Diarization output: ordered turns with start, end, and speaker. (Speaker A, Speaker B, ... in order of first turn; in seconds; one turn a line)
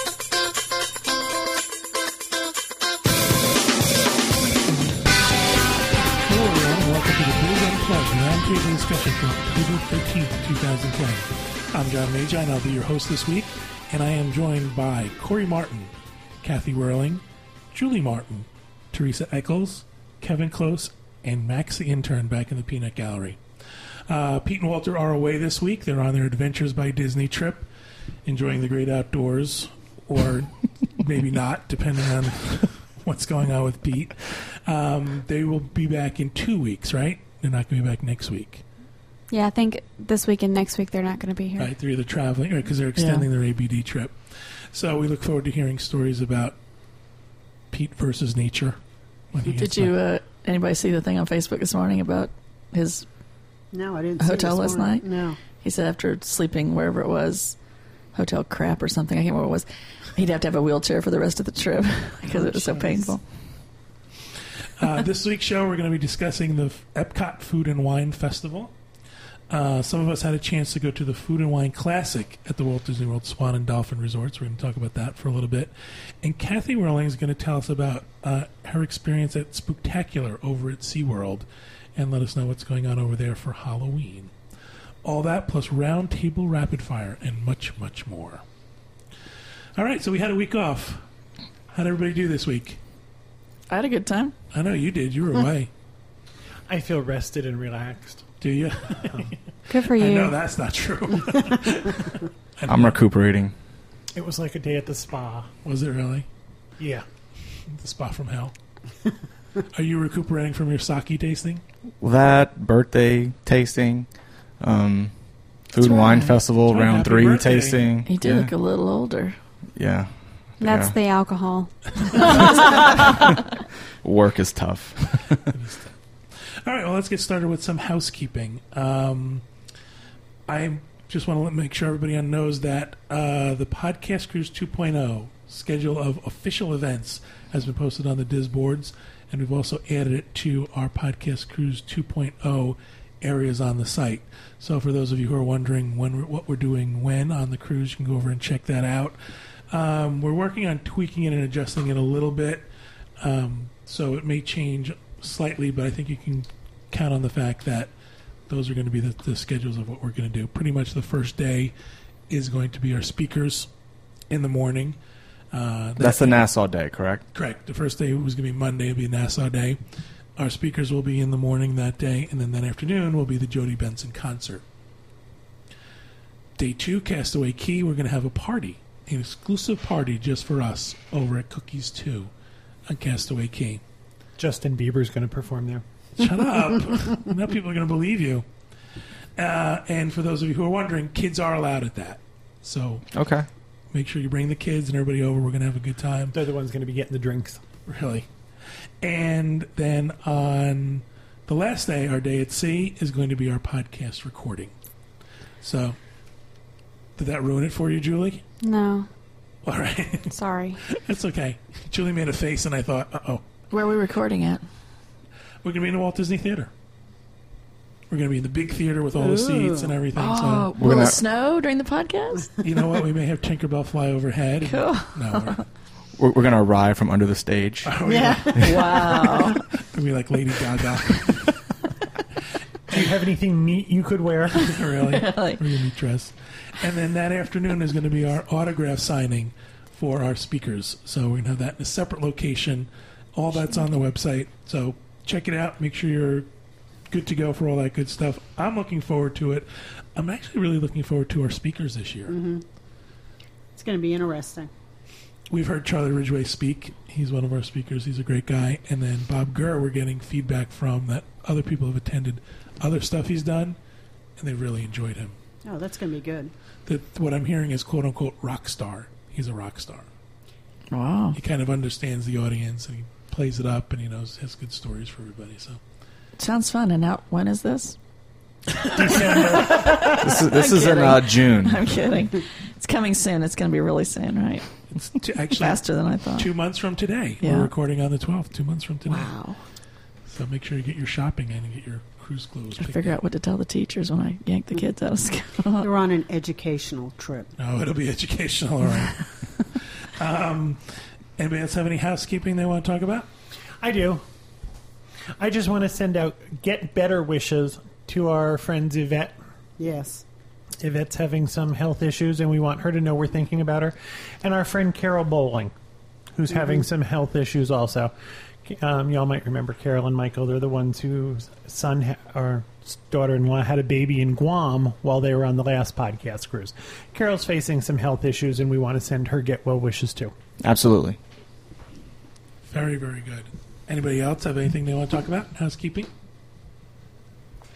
Speaker A: 4.7-5.1
Speaker A: 6.2-23.4
Speaker A: 24.1-27.7
Speaker A: 28.2-38.6
Speaker B: 39.3-41.7
Speaker A: 41.6-46.6
Speaker C: 43.0-43.2
Speaker A: 47.7-48.8
Speaker A: 49.3-50.0
Speaker C: 49.5-53.0
Speaker D: 53.7-55.4
Speaker C: 54.2-55.0
Speaker C: 55.6-57.5
Speaker C: 58.1-63.2
Speaker A: 62.2-63.1
Speaker A: 64.8-68.7
Speaker A: 69.5-84.3
Speaker A: 85.0-88.4
Speaker A: 89.8-91.0
Speaker A: 91.7-92.8
Speaker C: 93.7-94.3
Speaker A: 94.5-95.7
Speaker E: 96.7-98.2
Speaker A: 98.4-103.0
Speaker E: 99.0-99.3
Speaker B: 99.7-100.3
Speaker F: 102.7-103.5
Speaker E: 104.1-105.5
Speaker A: 105.6-106.2
Speaker E: 106.8-107.0
Speaker A: 107.7-108.5
Speaker A: 109.7-111.6
Speaker F: 112.0-114.1
Speaker F: 114.6-115.1
Speaker F: 115.7-118.1
Speaker A: 116.6-118.5
Speaker C: 118.1-119.3
Speaker F: 119.8-120.1
Speaker F: 120.6-120.9
Speaker B: 120.6-123.2
Speaker F: 124.0-125.5
Speaker A: 125.5-129.4
Speaker A: 130.5-149.2
Speaker A: 149.7-152.7
Speaker A: 153.2-157.9
Speaker A: 158.5-161.7
Speaker A: 162.3-163.7
Speaker A: 164.3-165.0
Speaker A: 165.5-166.5
Speaker F: 166.0-167.2
Speaker A: 167.3-169.8
Speaker A: 170.3-174.6
Speaker A: 176.6-182.3
Speaker A: 182.9-183.8
Speaker E: 184.4-185.8
Speaker A: 186.2-188.4
Speaker A: 189.4-193.0
Speaker F: 193.1-193.4
Speaker A: 193.9-196.3
Speaker E: 196.3-197.6
Speaker A: 197.8-198.3
Speaker A: 199.0-204.7
Speaker A: 205.6-206.0
Speaker A: 207.2-208.4
Speaker B: 208.6-209.1
Speaker A: 209.6-213.4
Speaker B: 210.3-210.8
Speaker C: 213.7-214.6
Speaker A: 215.6-216.7
Speaker A: 218.1-220.7
Speaker D: 219.2-219.9
Speaker C: 220.1-222.5
Speaker F: 220.8-221.2
Speaker A: 222.6-225.6
Speaker C: 224.6-225.6
Speaker F: 226.2-227.9
Speaker A: 227.8-229.0
Speaker D: 228.1-229.5
Speaker C: 228.6-229.6
Speaker A: 229.8-231.4
Speaker E: 232.9-234.7
Speaker A: 234.6-246.5
Speaker C: 235.1-235.6
Speaker A: 247.1-252.3
Speaker D: 252.3-252.6
Speaker D: 253.7-254.7
Speaker A: 255.5-263.8
Speaker A: 264.4-265.4
Speaker D: 265.6-266.5
Speaker A: 266.9-270.1
Speaker C: 270.9-271.4
Speaker A: 271.3-275.8
Speaker C: 276.4-277.9
Speaker E: 278.8-280.2
Speaker C: 278.9-284.7
Speaker F: 280.2-281.8
Speaker A: 284.9-285.8
Speaker C: 285.6-286.5
Speaker A: 286.4-289.3
Speaker C: 287.4-287.7
Speaker C: 289.1-289.6
Speaker A: 290.3-293.2
Speaker C: 292.8-295.9
Speaker D: 295.8-297.5
Speaker A: 297.6-299.3
Speaker A: 300.0-303.3
Speaker E: 303.8-304.2
Speaker E: 305.4-309.4
Speaker D: 309.8-310.2
Speaker E: 310.8-315.7
Speaker E: 316.3-318.1
Speaker E: 318.6-330.3
Speaker F: 330.6-331.2
Speaker A: 332.6-336.1